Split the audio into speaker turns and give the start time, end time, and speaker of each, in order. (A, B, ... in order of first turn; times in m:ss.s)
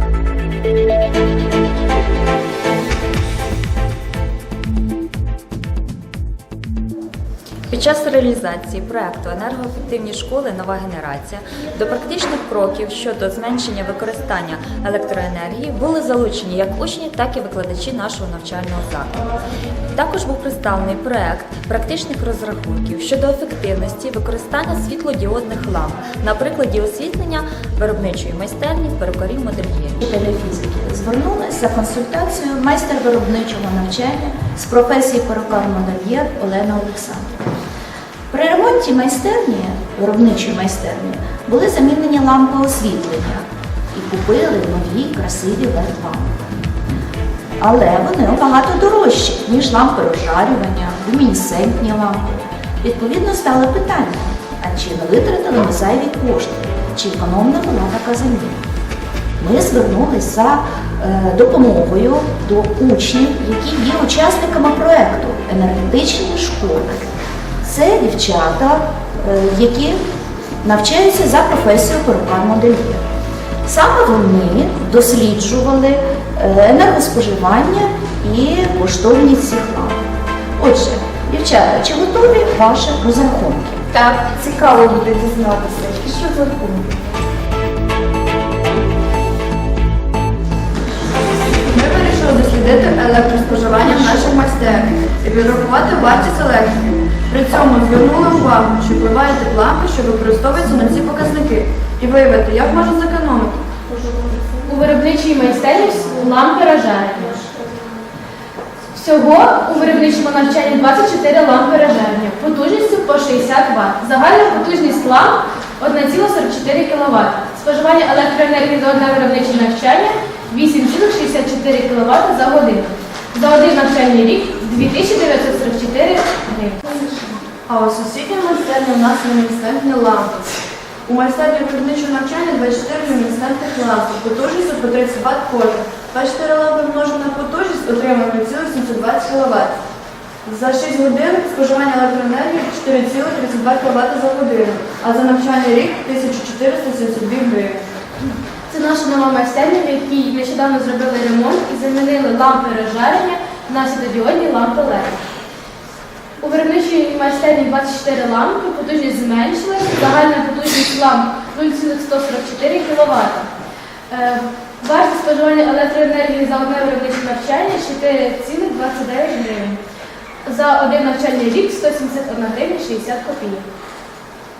0:07.7-0:19.2 A
0:19.9-0:30.0 A
0:30.0-0:37.5 B
0:38.3-0:46.4 B
0:47.6-0:58.6 B
0:59.4-1:07.1 B
1:07.6-1:10.0 B
1:10.6-1:13.0 B
1:13.6-1:20.0 B
1:20.6-1:23.8 B
1:24.2-1:24.5 A
1:25.4-1:26.3 C
1:31.7-1:43.6 C
1:44.6-1:47.4 D
1:48.9-2:07.0 D
2:07.7-2:10.5 C
2:11.1-2:19.8 C
2:20.4-2:27.8 C
2:28.7-2:35.2 D
2:36.4-2:43.5 D
2:44.1-2:49.8 D
2:50.4-2:53.7 D